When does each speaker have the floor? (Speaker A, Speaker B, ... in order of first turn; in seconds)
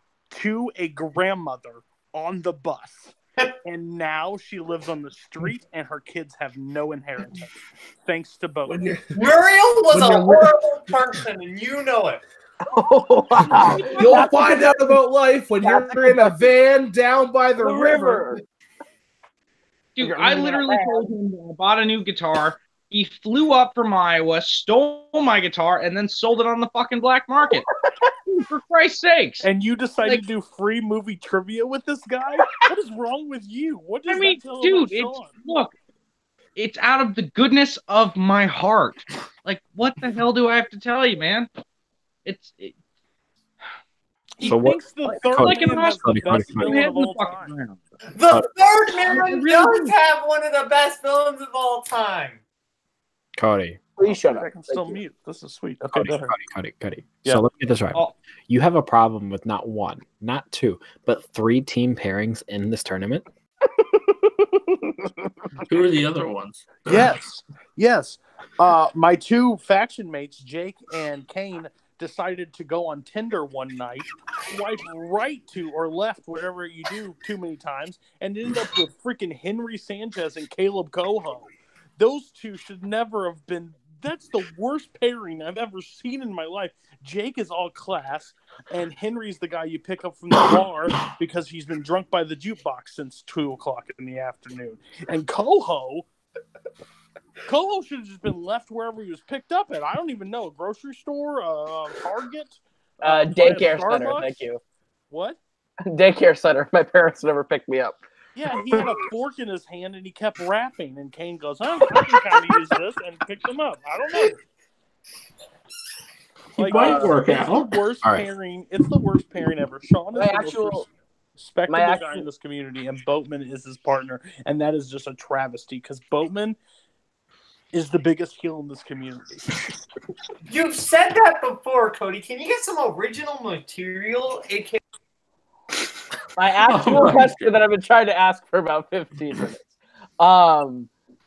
Speaker A: 0.3-7.5, 8.1-8.9, 29.4-35.4, 44.4-47.5, 54.0-56.4, 66.9-96.1, 97.5-104.4, 105.1-105.4, 108.3-114.4, 116.6-120.8, 121.4-126.6, 127.7-129.6
Speaker B: 8.7-9.4, 9.9-10.6, 13.8-18.3
Speaker C: 9.1-12.2, 48.1-52.4, 130.5-134.8
Speaker D: 12.7-15.0, 15.6-16.5, 17.6-18.4, 20.0-21.1, 54.0-55.0, 103.0-104.6, 105.9-108.0, 116.7-117.1, 120.2-120.8, 121.7-122.3, 136.4-139.7, 140.2-140.9
Speaker E: 13.6-14.3, 20.0-27.7, 28.3-29.5, 34.1-35.7, 36.6-41.5, 42.2-42.7, 45.0-47.8, 49.0-50.0
Speaker F: 44.4-46.9, 53.4-53.8, 55.9-63.3
Speaker G: 65.7-67.2, 116.6-117.7, 136.6-137.6